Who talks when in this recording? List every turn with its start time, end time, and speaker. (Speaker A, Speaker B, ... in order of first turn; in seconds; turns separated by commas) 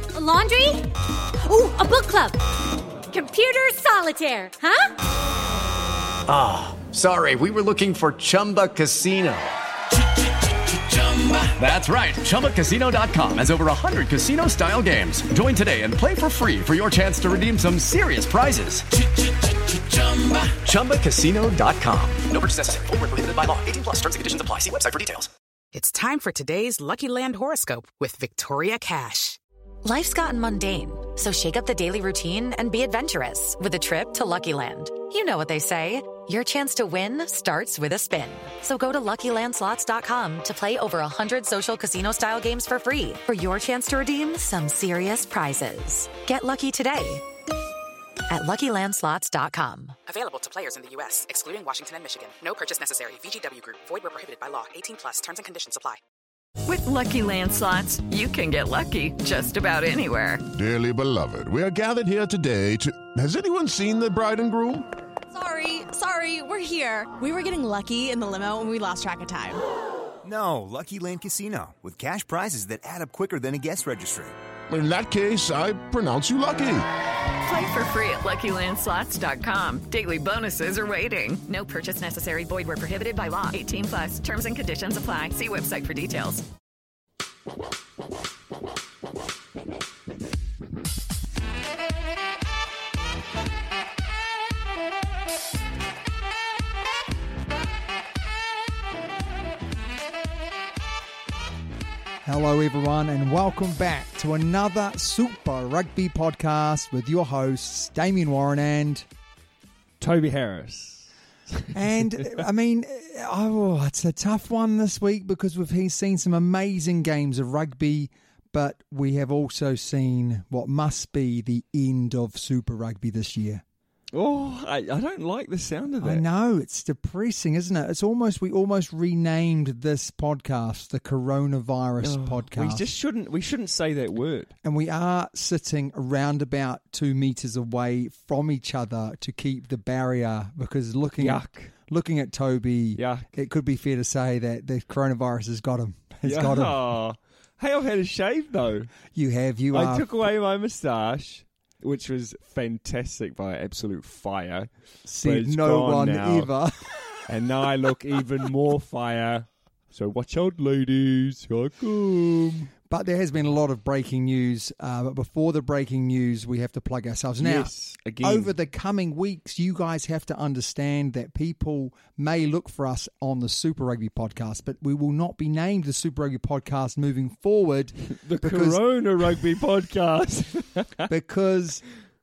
Speaker A: 0.1-2.4, Speaker A: 3.1-4.9, Speaker B: 6.3-9.5, Speaker B: 10.4-25.3, Speaker C: 25.7-29.4, Speaker D: 29.8-47.2, Speaker D: 48.3-50.0, Speaker C: 50.1-56.0, Speaker E: 56.6-60.4, Speaker F: 60.5-64.8, Speaker G: 65.3-69.6, Speaker H: 70.2-74.3, Speaker F: 74.7-76.9, Speaker E: 77.4-86.4, Speaker I: 102.2-109.0, Speaker J: 110.0-112.4, Speaker I: 111.7-123.6, Speaker J: 124.1-126.2, Speaker I: 126.0-132.9, Speaker J: 132.0-134.5, Speaker I: 134.6-146.8, Speaker J: 141.2-141.7, Speaker J: 142.9-143.3, Speaker J: 146.2-148.9, Speaker I: 149.1-150.1, Speaker J: 149.7-156.5, Speaker I: 155.1-156.8, Speaker J: 157.3-162.7, Speaker I: 162.9-178.8, Speaker J: 167.4-168.5, Speaker J: 178.1-181.1, Speaker I: 181.1-181.8